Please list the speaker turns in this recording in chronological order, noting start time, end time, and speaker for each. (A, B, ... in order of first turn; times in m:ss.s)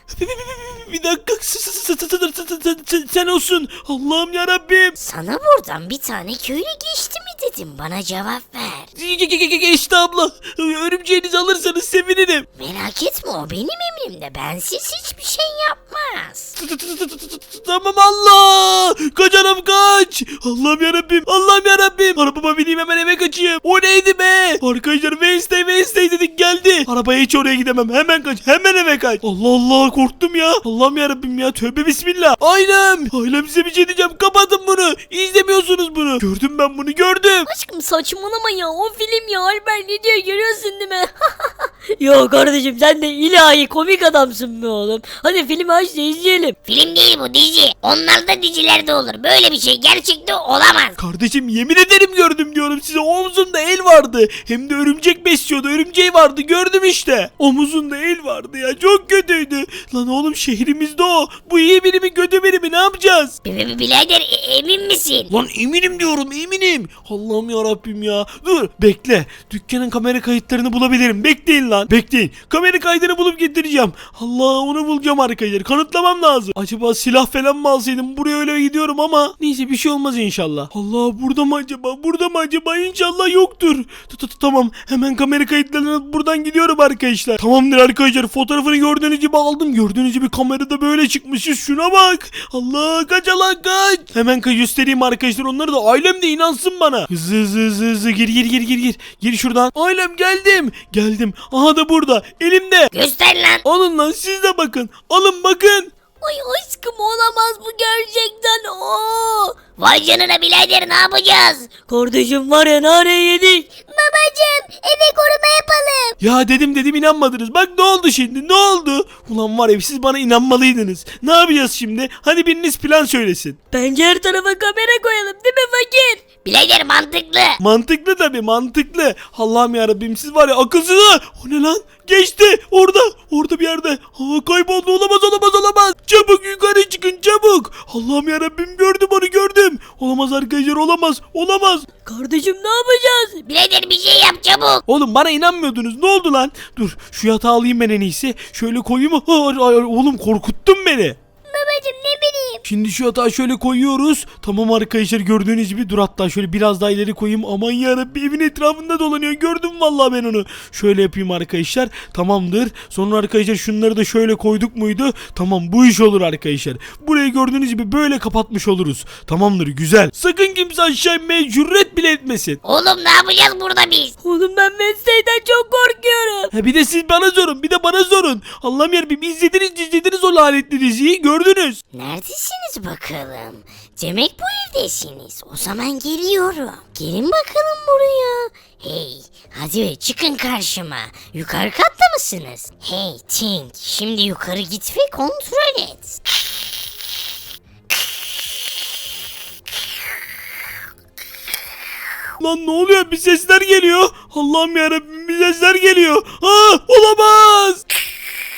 0:00.2-0:05.0 A
0:05.0-0:08.9 B
0:09.0-0:12.5 A
0:12.6-0:16.6 B
0:16.6-0:37.5 A
0:37.5-0:46.6 C
0:46.7-0:51.0 B
0:51.0-1:03.4 A
1:03.4-1:05.3 B
1:05.3-1:42.9 A
1:42.9-1:43.6 B
1:43.6-1:45.9 A
1:46.2-1:49.6 C
1:49.8-1:51.7 B
1:51.9-1:56.2 C
1:56.2-2:03.6 A
2:03.7-2:06.2 C
2:06.4-2:07.6 B
2:07.6-2:21.9 A
2:22.1-2:23.4 C
2:23.4-2:24.8 B
2:24.9-2:31.2 A
2:31.5-2:32.6 C
2:32.6-2:52.6 A
2:52.6-2:54.1 B
2:54.2-2:56.5 C
2:56.5-3:01.8 A
3:01.9-3:16.2 B
3:22.4-3:27.8 A